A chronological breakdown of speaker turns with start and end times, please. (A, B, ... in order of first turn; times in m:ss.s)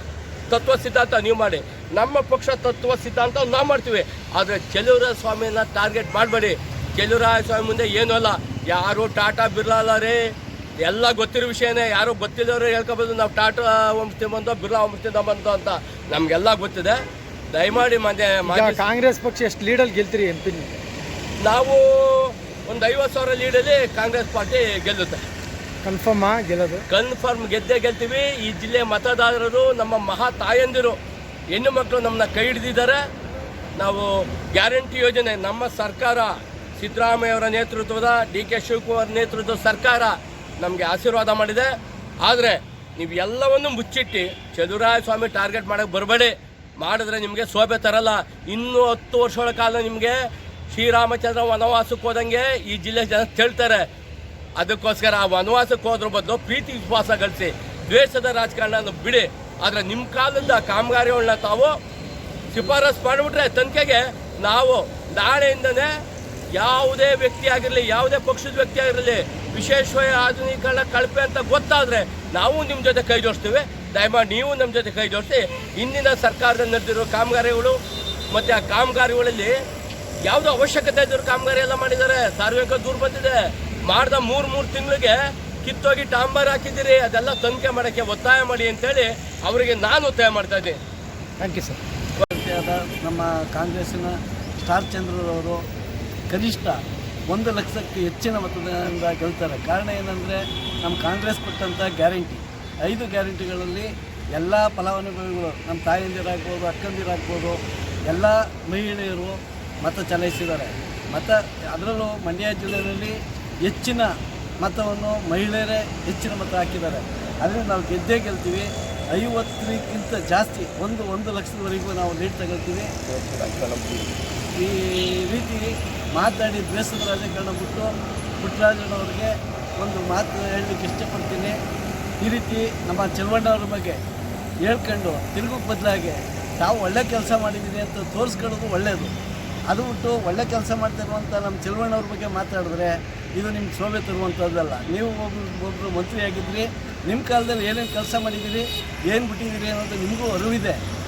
0:00.5-0:10.2 A
0:10.8-0:17.0 A
0:17.5-0:18.8 A
0:18.4-0:20.8 B
0:21.4-0:25.2 A
0:25.8-0:26.8 B
0:26.9-0:31.0 A
0:31.5-0:33.0 A
0:33.8-0:53.9 A
0:54.6-1:01.8 A
1:02.5-1:05.9 A
1:06.5-1:17.8 A
1:18.3-1:19.6 A
1:20.2-1:30.8 A
1:31.4-1:31.8 B
1:32.2-1:35.6 C
1:36.3-1:54.1 C
1:54.6-2:02.9 C
2:03.1-2:04.1 A
2:04.5-2:11.5 C
2:12.2-2:14.0 C
2:14.6-2:19.1 C
2:19.7-2:30.8 C